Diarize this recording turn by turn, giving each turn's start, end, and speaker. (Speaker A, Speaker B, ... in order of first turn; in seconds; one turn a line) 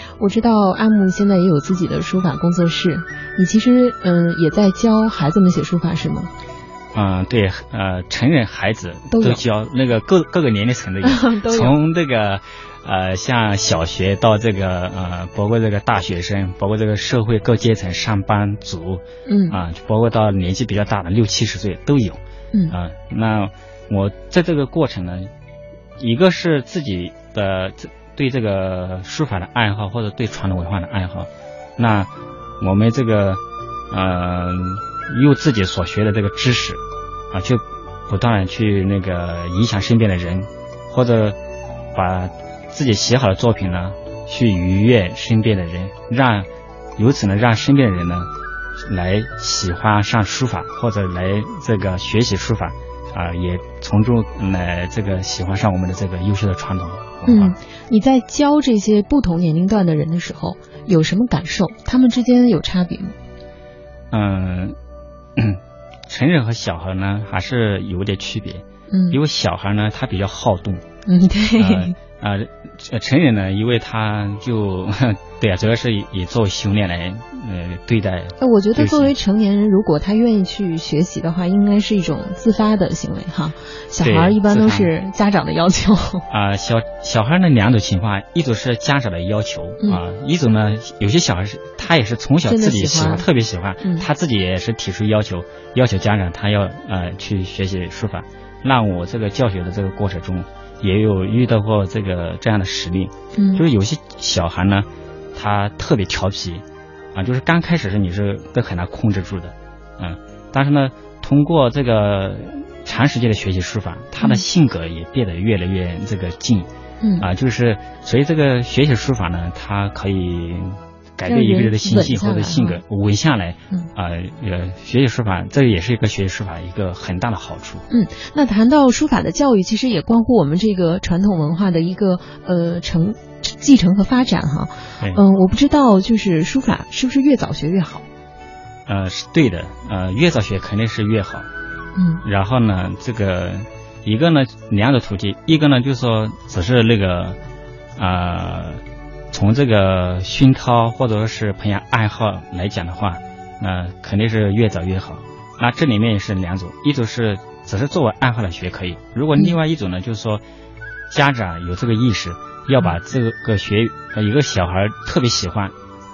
Speaker A: 0.2-6.3
Speaker B: 6.9-25.3
Speaker A: 9.1-9.4
Speaker A: 11.0-11.8
Speaker A: 19.3-19.6
Speaker B: 26.0-41.4
Speaker B: 41.9-57.5
Speaker A: 57.3-63.1
Speaker B: 64.1-64.8
Speaker B: 65.4-70.8
Speaker A: 68.9-69.2
Speaker A: 71.1-72.0
Speaker B: 71.6-79.1
Speaker A: 78.4-86.3
Speaker B: 84.0-84.9
Speaker B: 86.3-116.7
Speaker A: 92.5-93.3
Speaker A: 93.8-94.1
Speaker A: 103.4-103.6
Speaker A: 117.0-117.3
Speaker B: 117.2-127.8
Speaker A: 121.3-122.8
Speaker A: 127.9-138.0
Speaker B: 138.9-141.5
Speaker A: 142.0-142.2
Speaker B: 142.2-147.4
Speaker B: 148.0-160.4
Speaker B: 161.1-165.7